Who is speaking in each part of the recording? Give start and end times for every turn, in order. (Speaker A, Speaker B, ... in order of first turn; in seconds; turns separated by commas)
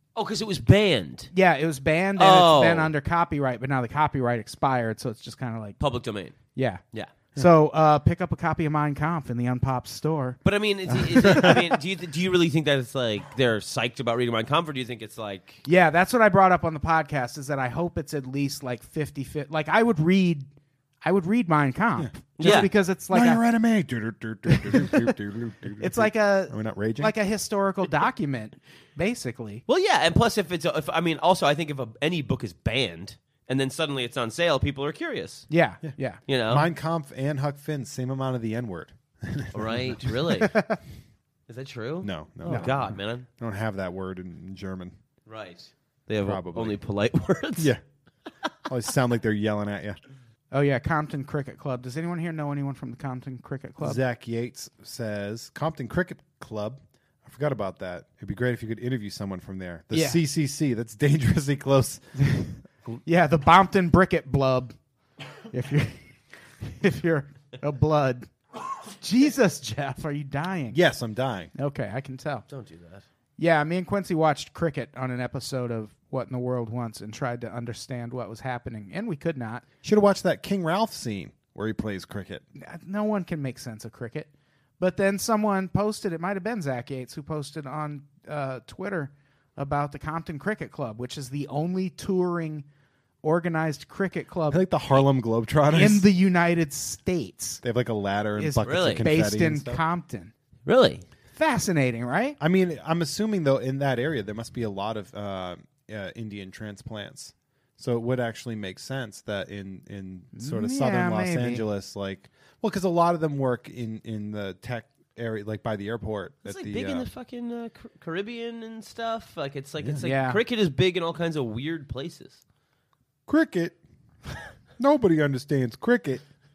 Speaker A: 0.1-1.3, Speaker B: 1.3-5.8, Speaker A: 2.2-2.9, Speaker A: 5.8-6.4, Speaker B: 6.5-6.8, Speaker B: 7.3-10.4, Speaker A: 10.4-15.6, Speaker B: 10.9-11.6, Speaker C: 11.2-11.6, Speaker B: 15.7-20.5, Speaker B: 21.0-23.4, Speaker C: 22.0-27.1, Speaker A: 22.4-22.7, Speaker B: 24.4-25.1, Speaker B: 25.8-29.6, Speaker A: 29.7-35.5, Speaker B: 35.5-36.2, Speaker A: 36.3-36.6, Speaker C: 36.5-40.2, Speaker A: 39.5-40.5, Speaker B: 40.3-40.8, Speaker A: 41.5-43.2, Speaker C: 42.0-45.0, Speaker A: 45.2-47.7, Speaker C: 46.2-46.8, Speaker C: 48.6-50.0, Speaker B: 50.5-54.0, Speaker C: 53.8-62.1, Speaker B: 59.9-60.2, Speaker B: 62.2-62.5, Speaker B: 63.0-64.8, Speaker B: 65.5-70.8, Speaker C: 70.7-71.5, Speaker B: 71.5-72.5, Speaker A: 72.5-73.0, Speaker B: 73.4-79.6, Speaker C: 79.8-82.4, Speaker B: 82.5-92.7, Speaker B: 93.2-94.6, Speaker C: 94.5-96.1, Speaker B: 95.7-97.6, Speaker C: 97.6-99.8, Speaker B: 98.4-100.3, Speaker A: 98.6-99.0, Speaker A: 100.7-101.0, Speaker B: 101.3-102.4, Speaker C: 102.4-117.1, Speaker B: 110.3-111.6, Speaker A: 116.4-122.4, Speaker B: 120.0-120.4, Speaker C: 123.3-123.8, Speaker C: 124.8-126.2